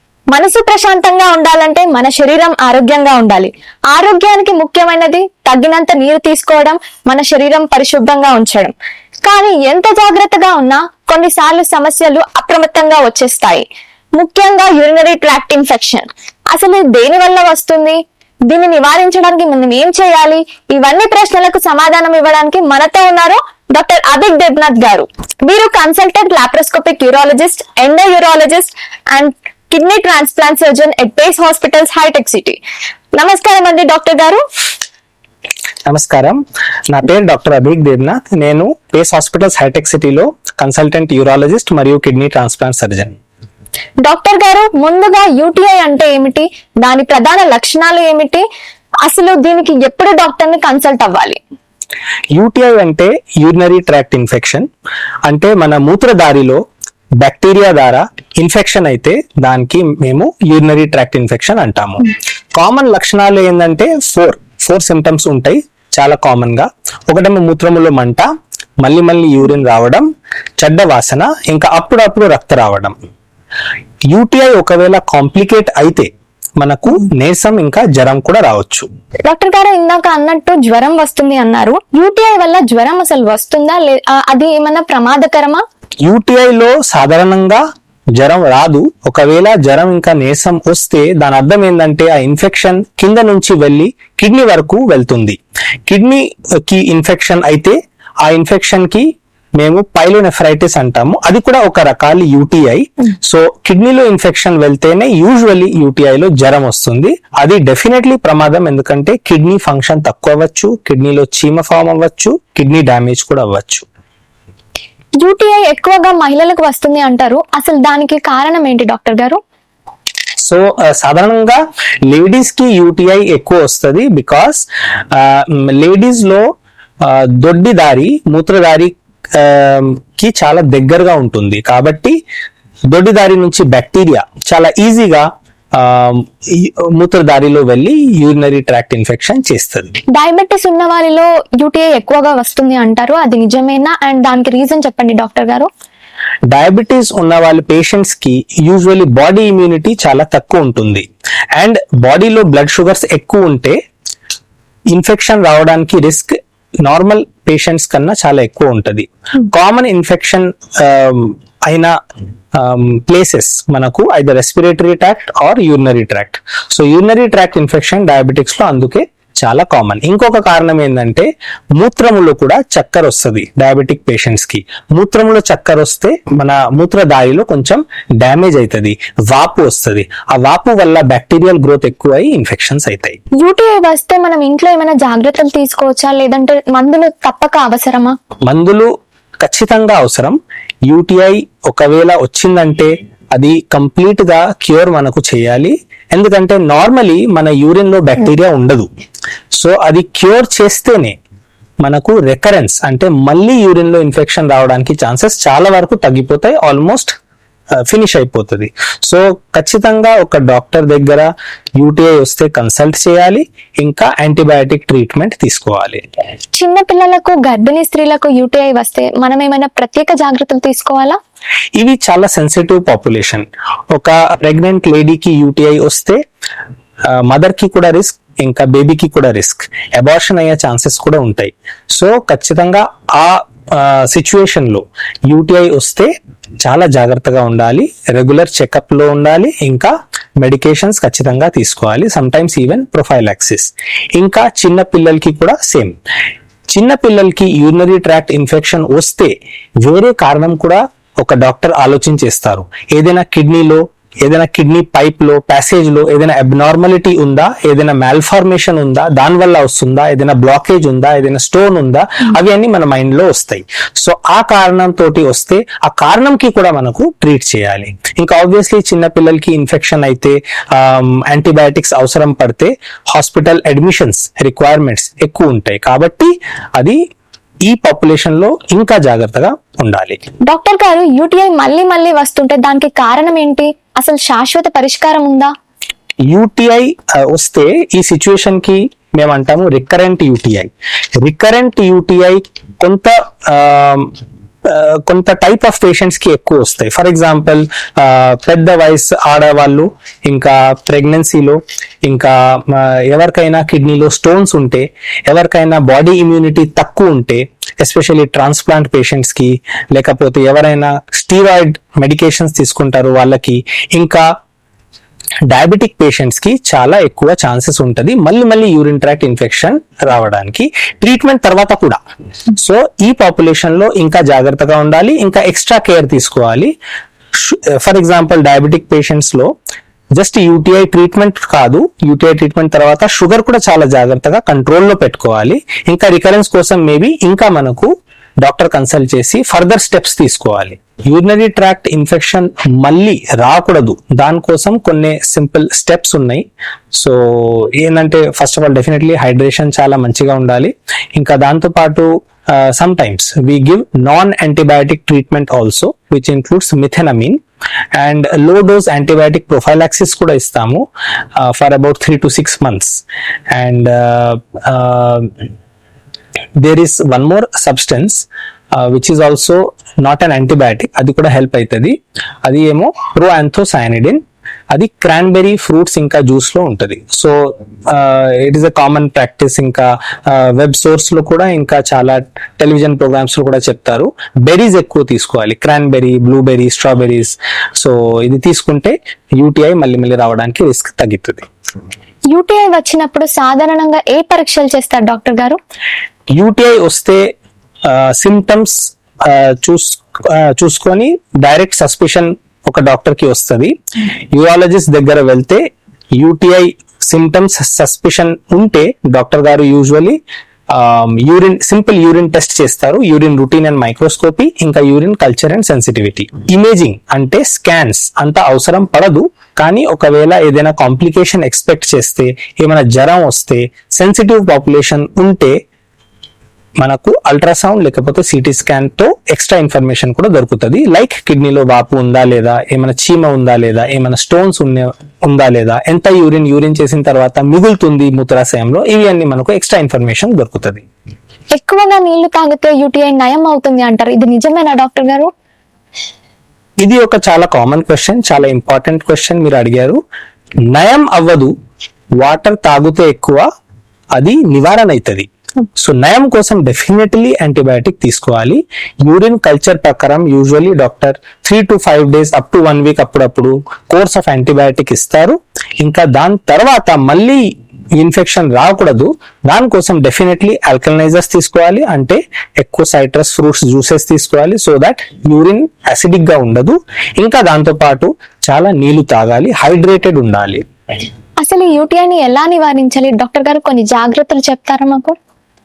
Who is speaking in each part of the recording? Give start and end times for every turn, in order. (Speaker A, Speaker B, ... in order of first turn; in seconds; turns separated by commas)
Speaker A: 0.3-13.7, Speaker A: 14.2-32.6, Speaker A: 33.1-34.4, Speaker B: 35.9-43.1, Speaker A: 44.0-48.4, Speaker A: 49.0-51.4, Speaker B: 52.3-54.7, Speaker B: 55.2-56.6, Speaker B: 57.2-68.3, Speaker B: 68.8-70.1, Speaker B: 70.6-73.0, Speaker B: 74.1-76.1, Speaker B: 76.6-78.9, Speaker A: 79.3-85.6, Speaker B: 86.0-87.6, Speaker B: 88.2-113.8, Speaker A: 115.2-119.4, Speaker B: 120.4-126.4, Speaker B: 127.0-132.2, Speaker B: 132.9-139.9, Speaker A: 140.1-145.7, Speaker B: 146.5-153.8, Speaker B: 154.9-161.9, Speaker B: 162.5-183.2, Speaker A: 183.4-188.1, Speaker B: 188.4-198.9, Speaker B: 199.6-201.2, Speaker B: 201.8-207.2, Speaker B: 207.8-216.0, Speaker A: 216.5-221.2, Speaker B: 221.8-226.2, Speaker B: 227.1-245.9, Speaker B: 246.7-277.0, Speaker B: 277.6-280.2, Speaker A: 280.5-285.5, Speaker B: 286.3-314.3, Speaker B: 315.5-322.0, Speaker B: 322.6-326.7, Speaker B: 327.4-329.5, Speaker B: 330.1-337.9, Speaker B: 338.4-357.4, Speaker B: 357.9-365.3, Speaker B: 366.6-374.2, Speaker B: 374.7-391.4, Speaker A: 392.3-395.6, Speaker B: 396.3-397.3, Speaker B: 397.8-403.7, Speaker B: 404.3-425.5, Speaker B: 426.8-440.8, Speaker A: 441.6-445.3, Speaker B: 446.8-450.0, Speaker B: 450.7-451.5, Speaker B: 452.2-453.4, Speaker B: 454.1-480.6, Speaker A: 481.4-485.1